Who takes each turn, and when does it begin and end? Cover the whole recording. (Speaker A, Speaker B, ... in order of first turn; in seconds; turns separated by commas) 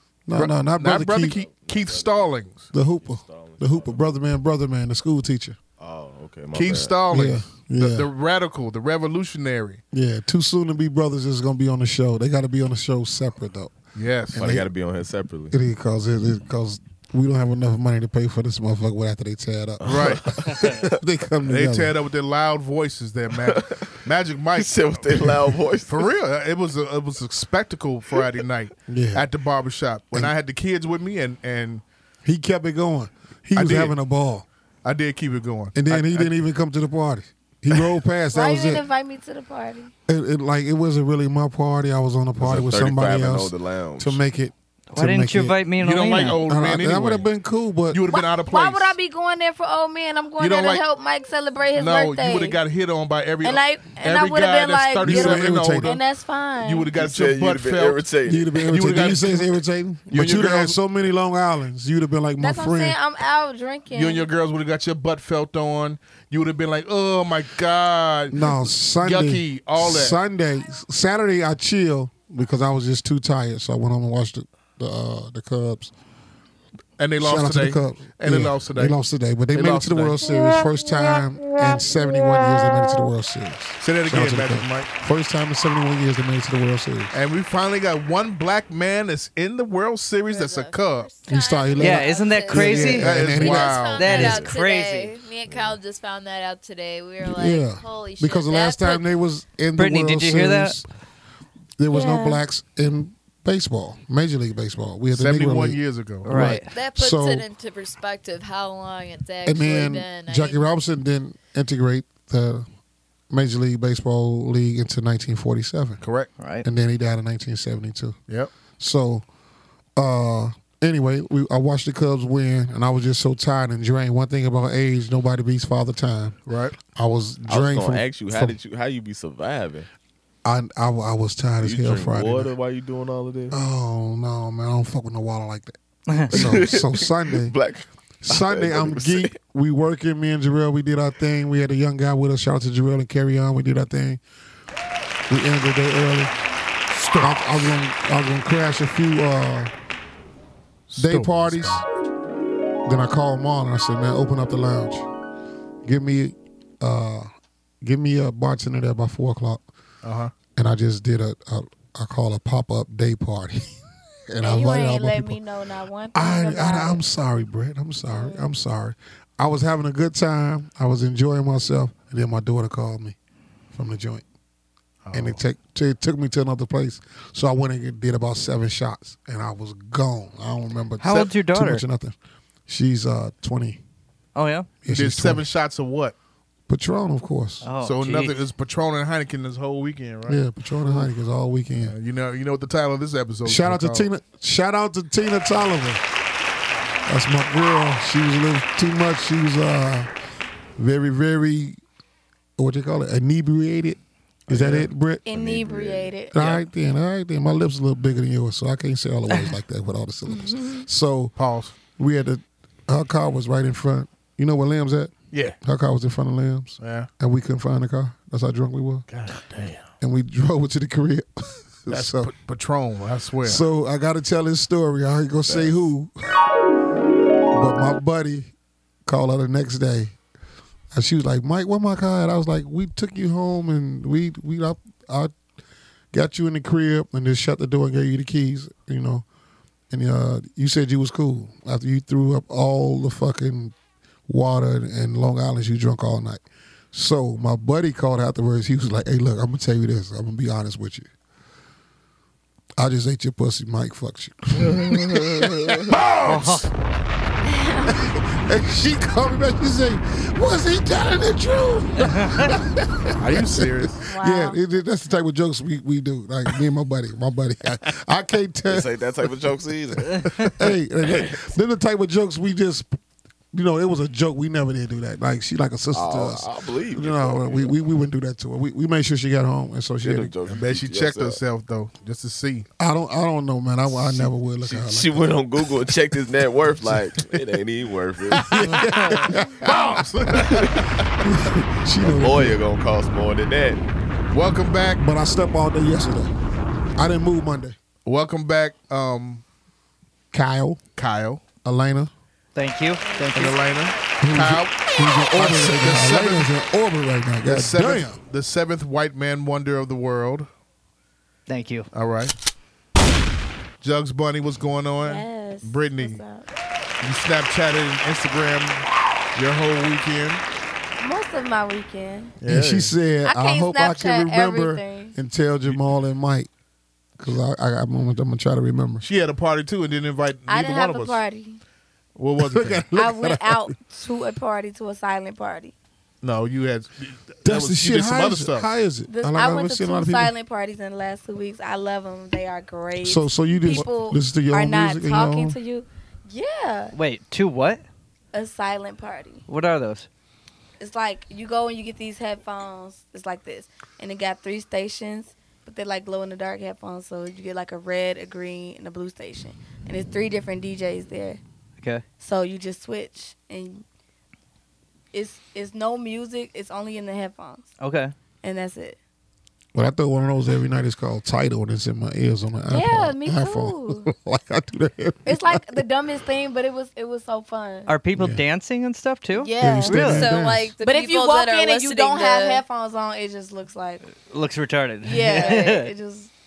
Speaker A: 0.3-1.4, Speaker B: 0.3-2.7, Speaker C: 1.2-4.2, Speaker A: 2.7-5.6, Speaker C: 5.8-7.0, Speaker B: 6.5-9.8, Speaker A: 7.1-8.1, Speaker A: 9.9-13.8, Speaker B: 13.9-14.5, Speaker A: 14.3-14.7, Speaker C: 14.3-15.6, Speaker A: 15.5-21.9, Speaker C: 19.8-20.9, Speaker B: 19.8-20.2, Speaker B: 21.4-31.8, Speaker C: 23.4-23.8, Speaker C: 24.5-26.1, Speaker A: 28.9-29.3, Speaker A: 32.2-34.5, Speaker B: 33.5-34.0, Speaker B: 34.8-36.4, Speaker A: 35.7-38.8, Speaker D: 38.3-39.9, Speaker A: 40.1-45.6, Speaker C: 42.4-44.2, Speaker E: 44.9-46.4, Speaker B: 45.7-47.2, Speaker A: 46.3-48.0, Speaker B: 47.9-49.0, Speaker D: 48.1-52.6, Speaker B: 50.4-50.8, Speaker B: 51.7-56.0, Speaker D: 53.4-56.9, Speaker A: 55.0-56.0, Speaker B: 56.6-59.5, Speaker C: 56.9-59.0, Speaker A: 58.2-63.0, Speaker B: 60.1-60.8, Speaker D: 62.4-64.3, Speaker B: 63.9-70.2, Speaker A: 68.3-75.9, Speaker B: 77.0-79.0, Speaker A: 77.2-87.2, Speaker B: 79.5-80.3, Speaker B: 83.8-84.9, Speaker B: 87.1-91.2, Speaker F: 90.3-99.1, Speaker A: 91.2-94.5, Speaker E: 91.8-93.2, Speaker B: 92.9-94.0, Speaker E: 93.8-95.1, Speaker C: 95.5-95.7, Speaker A: 97.2-100.9, Speaker E: 99.8-100.8, Speaker A: 101.8-107.5, Speaker F: 101.9-102.2, Speaker D: 101.9-102.3, Speaker B: 105.1-106.3, Speaker E: 106.2-106.7, Speaker F: 106.4-110.7, Speaker A: 109.4-112.7, Speaker A: 113.3-116.0, Speaker B: 116.0-116.3, Speaker E: 116.4-116.6, Speaker A: 116.6-118.2, Speaker A: 118.8-119.2, Speaker A: 120.0-128.6, Speaker B: 126.5-126.8, Speaker C: 127.5-129.9, Speaker A: 130.4-132.5, Speaker C: 131.6-133.6, Speaker A: 133.5-135.8, Speaker A: 136.3-137.5, Speaker C: 136.3-139.3, Speaker A: 138.2-144.2, Speaker A: 145.3-146.3, Speaker B: 146.9-147.7, Speaker A: 147.2-149.7, Speaker B: 150.9-151.8, Speaker A: 150.9-151.8, Speaker A: 152.8-155.1, Speaker A: 155.8-157.3, Speaker A: 157.8-159.6, Speaker B: 160.0-160.3, Speaker A: 160.5-165.4, Speaker D: 164.4-167.1, Speaker A: 166.1-173.2, Speaker D: 168.1-168.5, Speaker A: 173.7-174.2, Speaker B: 175.0-175.4, Speaker A: 175.1-182.1, Speaker E: 181.0-181.8, Speaker B: 181.1-181.3, Speaker A: 182.7-183.8, Speaker E: 184.3-184.8, Speaker A: 184.8-185.4, Speaker B: 184.9-186.1, Speaker A: 186.7-187.7, Speaker E: 187.6-188.3, Speaker B: 187.7-191.1, Speaker A: 190.3-191.9, Speaker B: 191.8-194.1, Speaker A: 193.4-196.0, Speaker A: 197.1-200.1, Speaker A: 200.8-201.8, Speaker A: 202.6-211.3, Speaker B: 204.5-204.9, Speaker D: 205.2-206.4, Speaker B: 206.4-206.6, Speaker D: 210.4-210.8, Speaker B: 211.3-211.8, Speaker A: 211.9-219.1, Speaker B: 215.3-215.6, Speaker B: 216.8-217.1, Speaker B: 219.1-219.9, Speaker A: 220.0-222.3, Speaker B: 221.9-223.7, Speaker A: 223.4-226.1, Speaker C: 225.4-225.7, Speaker A: 227.5-228.5, Speaker A: 229.1-230.2, Speaker A: 230.9-235.3, Speaker A: 236.1-239.2, Speaker A: 239.9-243.7, Speaker A: 244.3-251.1, Speaker A: 252.8-256.6, Speaker C: 255.4-255.9, Speaker B: 256.2-256.6, Speaker E: 256.3-256.6, Speaker D: 257.4-257.9, Speaker A: 257.9-268.9, Speaker B: 263.2-264.1, Speaker D: 264.1-264.6, Speaker C: 268.7-270.3, Speaker A: 270.2-273.0, Speaker A: 273.5-280.4, Speaker C: 275.9-277.7, Speaker C: 280.0-281.4, Speaker B: 280.4-282.7, Speaker A: 282.8-285.6, Speaker C: 284.7-288.8, Speaker A: 288.3-290.6, Speaker B: 289.6-290.9, Speaker C: 290.4-291.1, Speaker A: 291.2-292.6, Speaker C: 292.0-293.8, Speaker B: 294.3-295.0, Speaker A: 295.0-296.3, Speaker A: 297.0-297.8, Speaker B: 298.0-299.4, Speaker A: 300.3-300.8, Speaker B: 300.9-301.4, Speaker A: 301.6-302.1, Speaker E: 302.5-303.6, Speaker F: 303.0-303.9, Speaker D: 303.1-303.6, Speaker B: 303.3-304.8, Speaker A: 304.2-308.2, Speaker B: 305.3-306.5, Speaker B: 307.4-310.5, Speaker E: 311.5-311.9, Speaker B: 311.9-312.3, Speaker B: 313.8-316.2, Speaker D: 315.0-316.5, Speaker B: 317.0-320.4, Speaker D: 321.0-322.4, Speaker B: 322.4-323.0, Speaker A: 322.4-326.5, Speaker D: 323.2-325.1, Speaker A: 327.2-329.1, Speaker B: 329.0-331.2, Speaker D: 330.5-331.6, Speaker B: 332.1-332.9, Speaker A: 332.4-333.7, Speaker D: 332.9-335.7, Speaker B: 336.2-338.7, Speaker A: 337.4-340.3, Speaker D: 339.1-346.9, Speaker A: 343.0-345.6, Speaker E: 346.9-347.8, Speaker D: 348.3-349.4, Speaker E: 349.5-350.1, Speaker D: 350.8-361.4, Speaker E: 361.8-362.0, Speaker D: 362.2-363.8, Speaker D: 365.1-367.7, Speaker E: 367.8-368.1, Speaker D: 368.4-369.0, Speaker A: 369.7-375.8, Speaker D: 372.7-374.1, Speaker D: 375.2-377.9, Speaker E: 377.9-380.3, Speaker A: 378.1-378.4, Speaker D: 379.3-380.1, Speaker A: 379.6-380.7, Speaker F: 380.0-382.6, Speaker D: 380.8-384.0, Speaker E: 384.1-385.9, Speaker D: 385.0-386.3